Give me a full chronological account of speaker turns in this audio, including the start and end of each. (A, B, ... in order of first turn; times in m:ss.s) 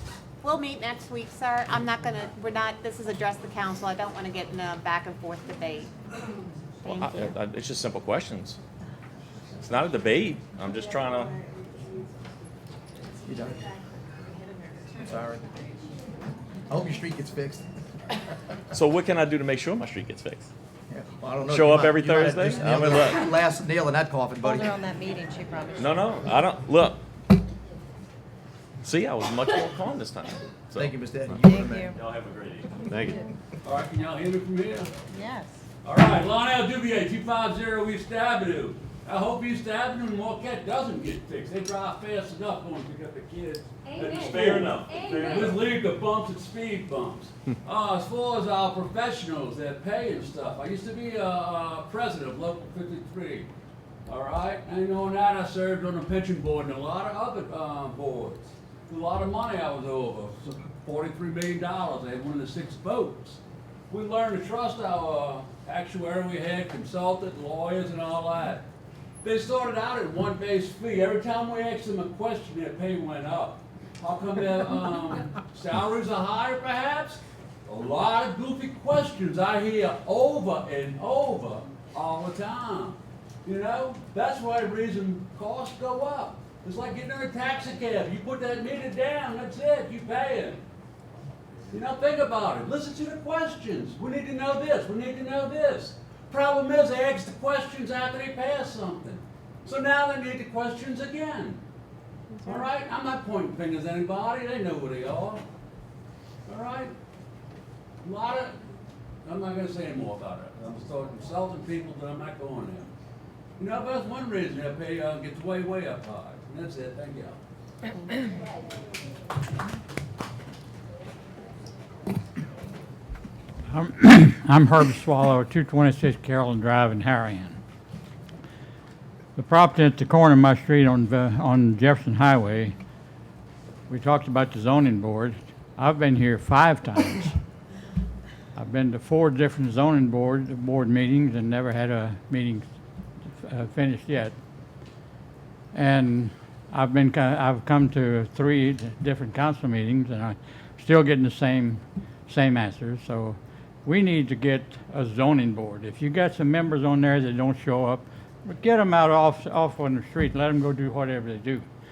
0:00.4-0:05.9 A
0:06.8-0:07.3 A
0:06.8-0:08.6 B
0:09.6-0:11.3 B
0:13.2-0:13.6 C
0:15.0-0:15.5 C
0:16.7-0:17.7 C
0:18.7-0:20.5 B
0:20.9-0:24.8 C
0:21.5-0:23.3 B
0:24.4-0:26.0 D
0:25.8-0:27.0 B
0:28.8-0:30.9 B
0:30.7-0:31.9 C
0:31.4-0:31.9 D
0:31.9-0:33.2 B
0:33.6-0:34.9 E
0:35.1-0:35.5 D
0:35.8-0:53.5 E
0:44.1-0:45.6 B
0:54.0-1:08.6 E
1:09.2-1:30.6 E
1:31.7-1:41.6 E
1:42.4-1:45.4 E
1:46.4-1:46.9 E
1:48.0-1:48.6 E
1:49.2-1:52.9 E
1:53.6-1:57.4 E
2:03.7-2:07.6 F
2:09.4-2:12.7 F
2:13.9-2:17.4 F
2:18.5-2:22.7 F
2:23.2-2:24.4 F
2:25.7-2:41.6 F